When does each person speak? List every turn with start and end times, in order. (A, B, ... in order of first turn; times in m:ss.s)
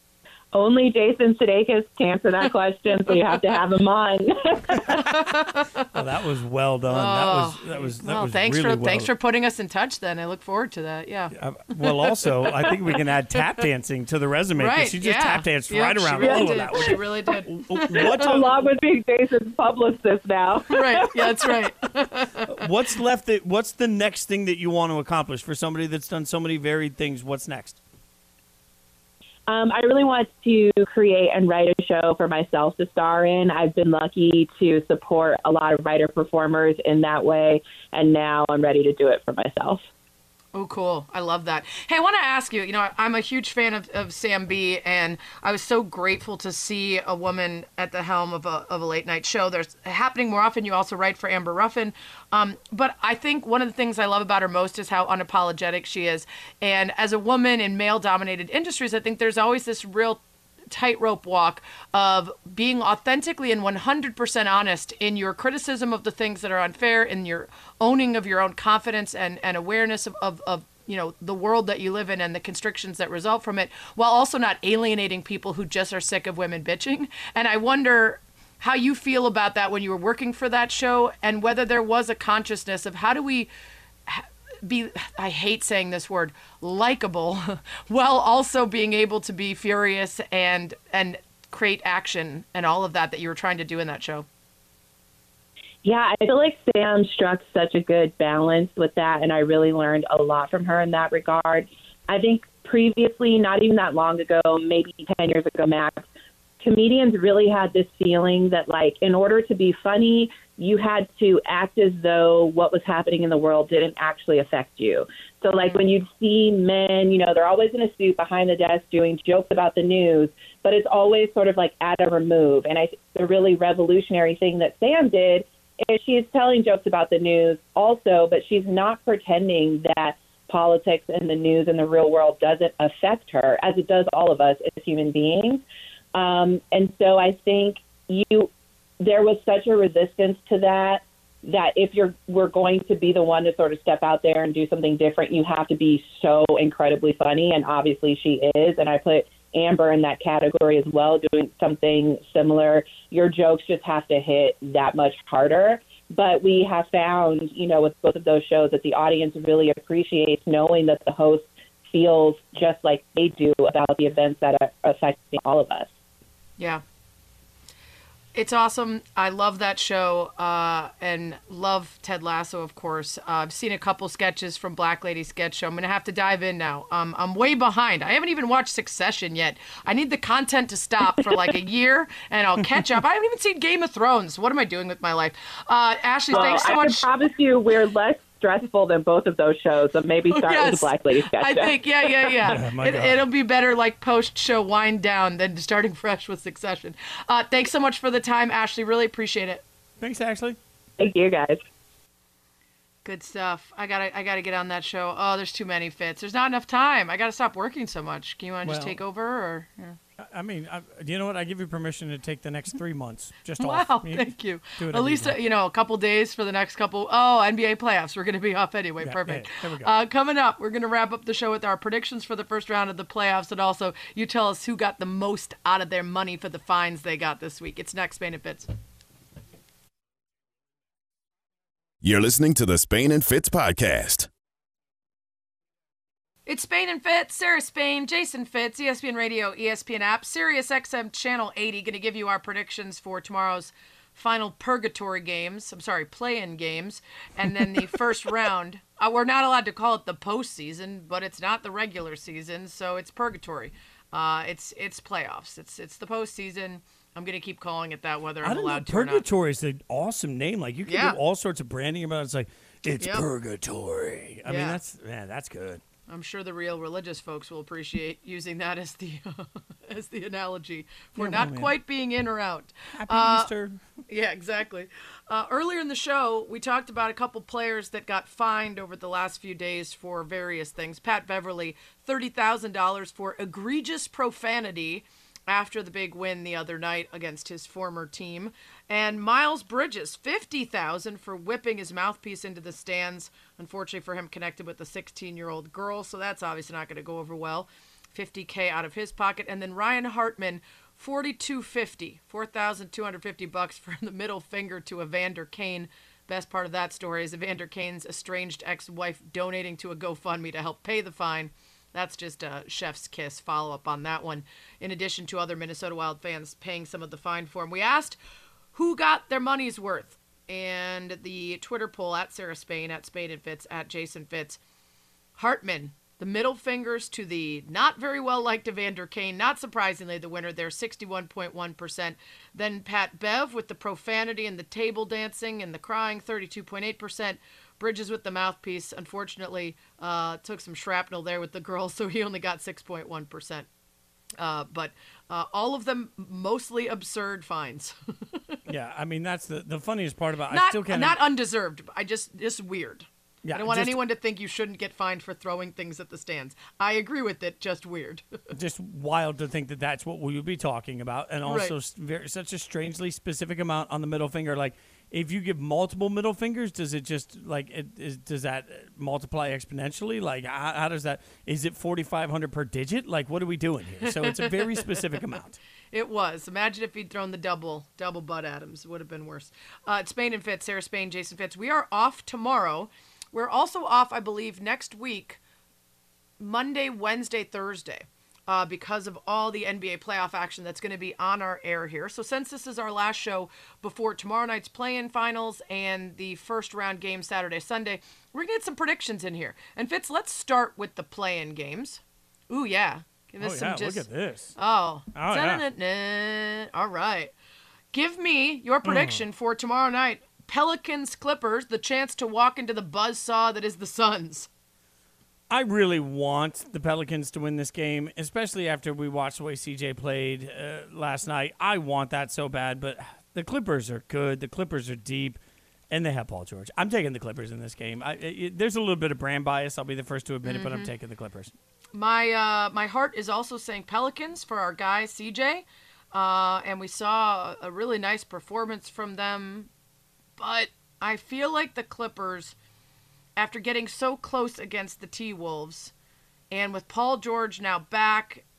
0:00.5-0:04.9 A
0:04.9-0:05.9 B
0:05.9-0:09.1 C
0:06.9-0:11.3 B
0:11.3-0:18.5 C
0:14.6-0:18.3 B
0:16.2-0:16.9 A
0:17.9-0:21.7 A
0:20.7-0:22.6 B
0:22.5-0:27.8 C
0:29.5-0:39.9 A
0:40.5-1:23.5 B
1:24.1-1:34.2 B
1:35.8-1:46.0 A
1:46.6-2:15.6 A
2:16.1-2:45.9 A
2:48.3-3:07.1 B
3:01.0-3:01.6 A
3:06.3-3:11.8 A
3:10.3-3:19.6 B
3:12.4-3:13.2 C
3:20.0-3:20.6 C
3:21.0-3:21.6 A
3:23.0-3:30.0 B
3:28.6-3:29.0 C
3:30.3-3:35.4 C
3:33.6-3:48.7 B
3:39.0-3:39.9 C
3:52.0-3:54.3 D
3:56.5-4:19.2 B
4:18.4-4:25.8 C
4:20.8-4:21.2 B
4:23.0-4:23.3 B
4:24.5-4:24.8 B
4:26.1-4:33.5 B
4:31.2-4:31.7 C
4:32.9-4:33.8 C
4:34.1-5:18.2 B
5:18.7-5:24.6 B
5:25.4-5:43.6 B
5:44.4-5:48.6 B
5:48.7-5:51.2 C
5:50.5-5:58.2 B
5:53.4-5:54.0 C
5:58.5-6:15.6 C
6:01.4-6:01.7 B
6:14.1-6:14.6 B
6:15.9-6:25.4 B
6:26.4-6:44.0 B
6:43.4-6:44.5 C
6:44.6-6:47.3 B
6:45.1-6:45.6 C
6:47.9-6:54.5 B
6:48.8-6:49.2 C
6:55.5-7:05.4 C
7:05.9-7:11.5 C
7:10.4-7:10.9 B
7:12.0-7:19.7 B
7:20.4-7:22.5 B
7:23.4-7:25.9 B
7:26.5-7:28.4 B